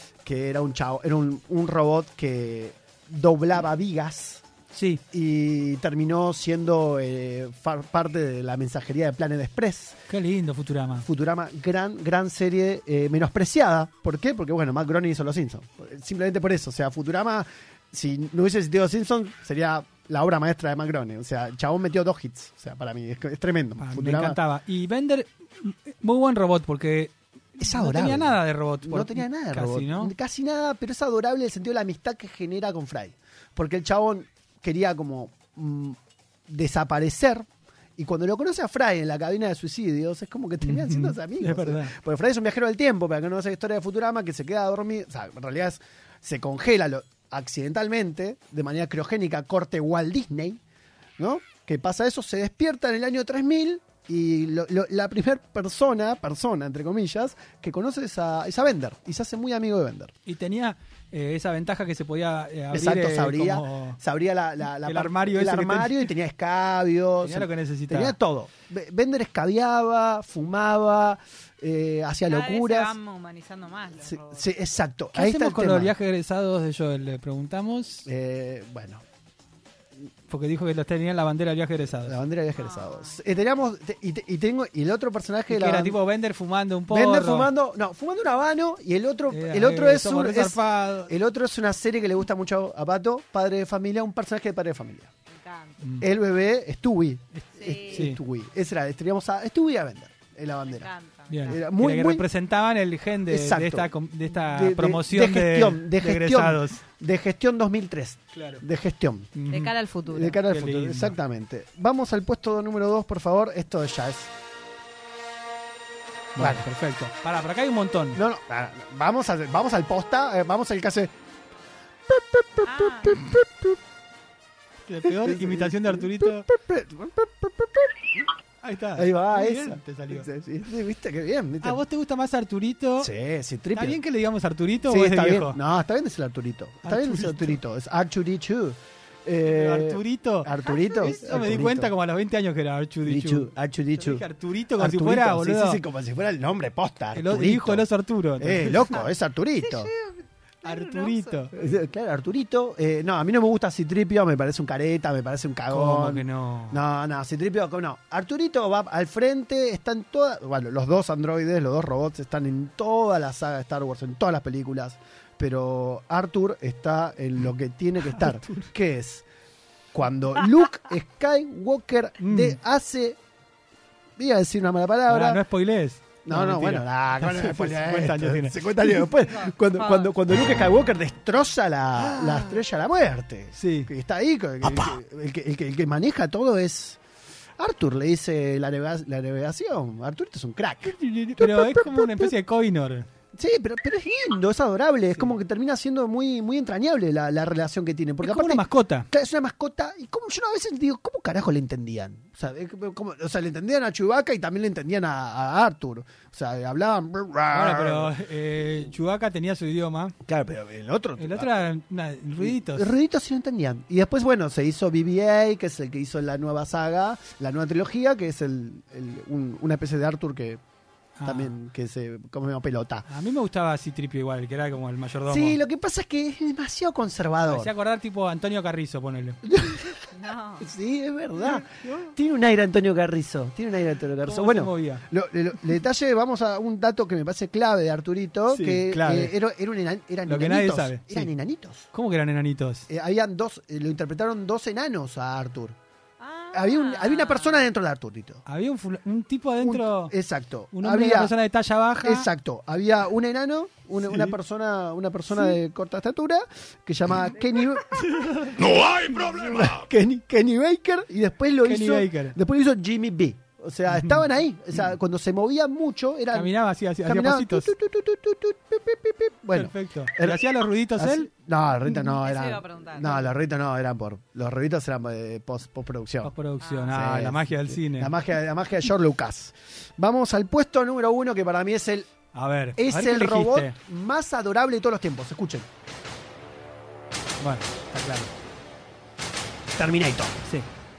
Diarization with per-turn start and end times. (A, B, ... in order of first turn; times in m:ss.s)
0:00.2-0:04.4 A
0:04.7-0:05.0 B
0:05.1-0:10.0 A
0:10.1-0:11.1 B
0:11.0-0:24.4 A
0:23.8-0:30.1 B
0:27.6-0:36.0 A
0:36.5-0:37.4 A
0:38.0-0:50.6 A
0:40.6-0:41.9 B
0:51.2-1:00.1 A
1:00.2-1:04.0 B
1:02.7-1:13.0 A
1:04.8-1:06.1 B
1:07.2-1:08.2 B
1:12.3-1:14.4 C
1:14.0-1:15.9 A
1:15.1-1:18.1 B
1:18.0-1:19.0 A
1:20.3-1:22.2 B
1:22.0-1:26.0 A
1:22.5-1:23.2 C
1:25.5-1:27.5 B
1:26.9-1:35.1 A
1:29.3-1:31.1 B
1:35.3-1:35.8 C
1:35.8-1:36.1 B
1:36.0-1:40.9 A
1:37.3-1:38.2 B
1:37.6-1:38.1 C
1:40.6-1:41.6 C
1:41.3-1:46.8 B
1:41.4-1:42.2 A
1:43.3-1:49.3 A
1:48.3-1:48.6 B
1:49.3-1:49.7 B
1:49.5-1:50.4 C
1:50.1-1:54.3 A
1:50.5-1:51.2 B
1:56.4-1:58.2 B
1:56.4-1:56.7 A
1:58.1-2:01.1 A
2:02.1-2:03.8 A
2:02.6-2:03.2 C
2:04.8-2:06.5 B
2:05.0-2:08.3 A
2:08.6-2:10.3 B
2:08.9-2:11.8 A
2:11.6-2:13.1 B
2:13.0-2:14.0 A
2:13.7-2:15.6 B
2:14.8-2:21.9 A
2:16.8-2:17.6 B
2:19.4-2:25.8 B
2:20.5-2:21.5 C
2:23.0-2:24.2 A
2:24.8-2:29.9 A
2:27.1-2:28.9 B
2:28.9-2:31.7 C
2:30.6-2:31.5 B
2:31.5-2:49.2 A
2:35.7-2:36.8 B
2:48.0-2:48.7 B
2:49.9-2:53.2 A
2:52.2-2:52.6 B
2:54.2-2:55.4 A
2:55.1-2:58.7 B
2:56.2-3:07.0 A
2:59.0-3:00.1 C
3:02.0-3:02.6 B
3:03.5-3:03.9 B
3:04.6-3:04.9 B
3:07.6-3:12.3 A
3:10.8-3:13.1 B
3:13.4-3:28.1 A
3:18.2-3:19.1 B
3:27.5-3:30.2 B
3:30.2-3:31.6 A
3:31.2-3:32.9 B
3:32.4-3:40.6 A
3:41.2-3:41.5 B
3:41.2-3:43.0 A
3:43.1-3:45.6 B
3:45.2-3:47.7 A
3:47.4-3:49.4 B
3:49.4-4:01.9 A
3:50.1-3:50.7 C
3:51.4-3:52.1 B
3:54.2-3:55.0 B
3:58.5-3:59.3 B
4:00.2-4:01.3 B
4:01.9-4:02.9 B
4:02.9-4:05.8 A
4:06.2-4:07.7 C
4:06.5-4:08.4 A
4:08.4-4:10.1 B
4:09.6-4:11.3 A
4:10.7-4:12.3 B
4:12.0-4:26.5 A
4:14.0-4:14.4 B
4:17.9-4:19.4 B
4:21.6-4:22.4 B
4:23.9-4:24.2 B
4:26.3-4:27.7 B
4:27.0-4:30.4 A
4:29.5-4:31.3 B
4:31.0-4:36.3 A
4:31.9-4:33.4 C
4:36.2-4:38.1 B
4:36.6-4:36.9 C
4:36.9-4:42.1 A
4:42.3-4:43.8 B
4:42.8-4:45.7 A
4:47.4-4:48.3 B
4:49.8-4:50.4 A